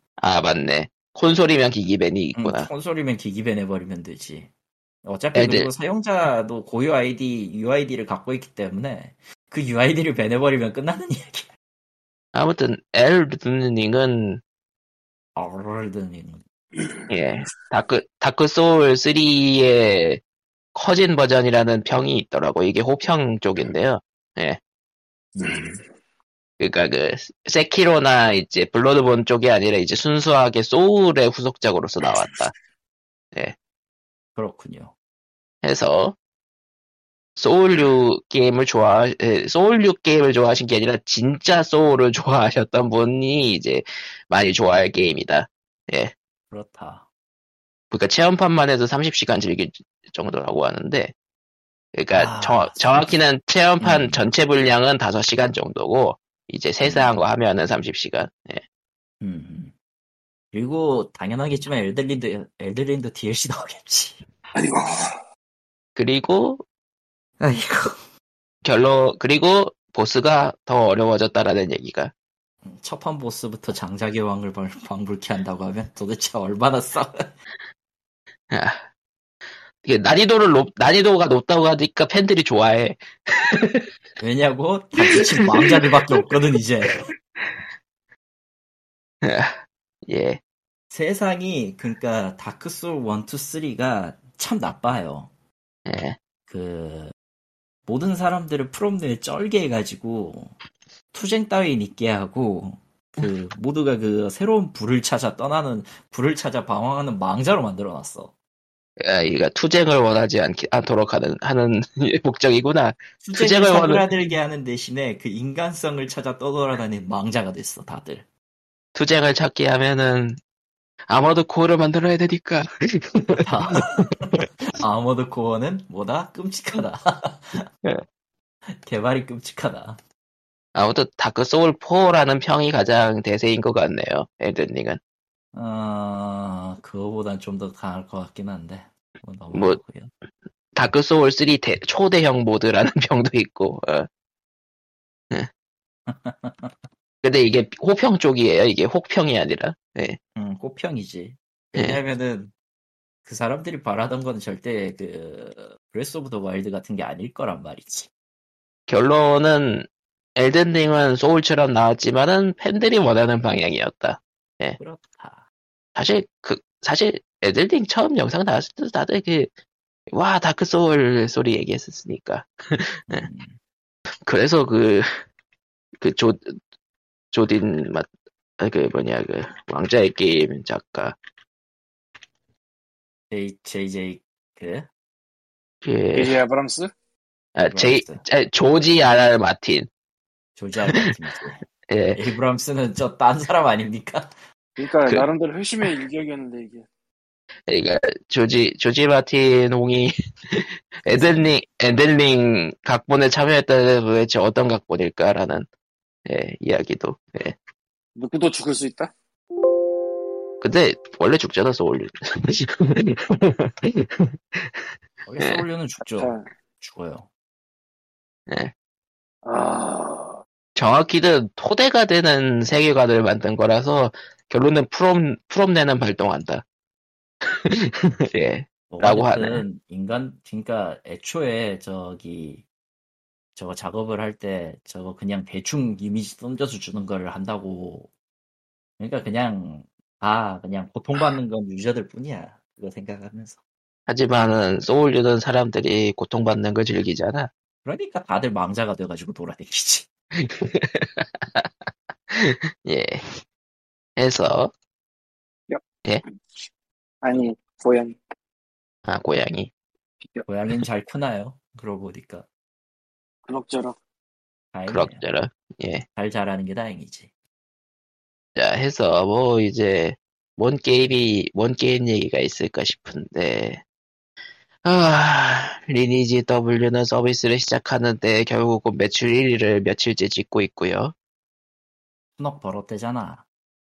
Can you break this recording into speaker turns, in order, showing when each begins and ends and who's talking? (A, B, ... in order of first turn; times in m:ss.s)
0:00.2-0:02.7 A
0:02.4-0:04.5 B
0:05.0-0:11.5 B
0:05.4-0:05.7 A
0:12.3-0:14.4 A
0:15.4-0:16.4 B
0:17.1-0:20.2 A
0:20.7-0:24.6 A
0:25.4-0:25.8 B
0:26.6-0:32.6 A
0:34.4-0:34.9 B
0:35.6-0:36.2 A
0:37.4-0:46.1 A
0:46.5-0:47.1 B
0:47.9-0:51.1 A
0:52.0-0:58.6 A
0:52.1-0:53.2 B
0:53.8-0:54.2 B
0:56.8-0:57.1 B
0:59.2-0:59.7 B
1:00.5-1:04.2 B
1:04.6-1:05.1 C
1:06.0-1:06.6 A
1:07.4-1:08.0 B
1:08.6-1:12.1 A
1:12.6-1:17.3 B
1:18.5-1:18.8 A
1:19.8-1:23.9 A
1:24.2-1:27.0 B
1:25.0-1:26.2 A
1:29.2-1:30.4 A
1:30.9-1:35.3 B
1:35.9-1:36.2 A
1:36.5-1:37.1 B
1:37.9-1:40.6 B
1:41.1-1:48.3 B
1:49.0-1:54.1 A
1:53.2-1:58.3 B
1:59.0-2:00.4 A
2:01.1-2:03.9 A
2:03.4-2:07.7 B
2:08.8-2:10.0 B
2:10.8-2:15.0 A
2:15.5-2:20.1 B
2:19.5-2:19.8 A
2:20.8-2:24.1 A
2:26.1-2:26.8 B
2:27.2-2:30.2 A
2:30.4-2:32.5 B
2:33.2-2:38.1 B
2:38.9-2:44.8 A
2:44.8-2:45.4 B
2:46.0-2:49.5 A
2:50.1-2:53.3 A
2:53.1-2:53.6 B
2:54.3-2:55.1 A
2:56.0-2:56.6 A
2:57.3-2:58.1 A
2:58.6-3:01.2 A
3:03.3-3:04.9 B
3:05.8-3:06.4 A
3:06.1-3:06.9 C
3:07.6-3:09.9 A
3:07.7-3:08.2 B
3:10.6-3:14.3 B
3:11.9-3:12.2 A
3:14.8-3:16.8 C
3:17.7-3:25.7 A
3:21.1-3:21.5 B
3:26.3-3:27.6 A
3:28.2-3:29.1 C
3:30.6-3:34.9 A
3:35.3-3:37.3 B
3:36.2-3:36.4 C
3:39.4-3:40.4 C
3:40.8-3:46.6 A
3:47.5-3:49.6 A
3:49.0-3:52.6 B
3:53.6-3:58.1 B
3:59.0-4:03.6 B
4:04.1-4:07.5 A
4:07.8-4:10.1 B
4:10.4-4:11.7 A
4:12.3-4:13.4 A
4:14.2-4:14.7 A
4:17.2-4:18.2 C
4:19.1-4:19.7 A
4:20.5-4:22.5 B
4:23.5-4:24.0 C
4:24.7-4:25.2 B
4:24.9-4:26.0 A
4:26.2-4:27.3 B
4:28.6-4:33.8 A
4:34.8-4:41.1 A
4:42.4-4:43.4 B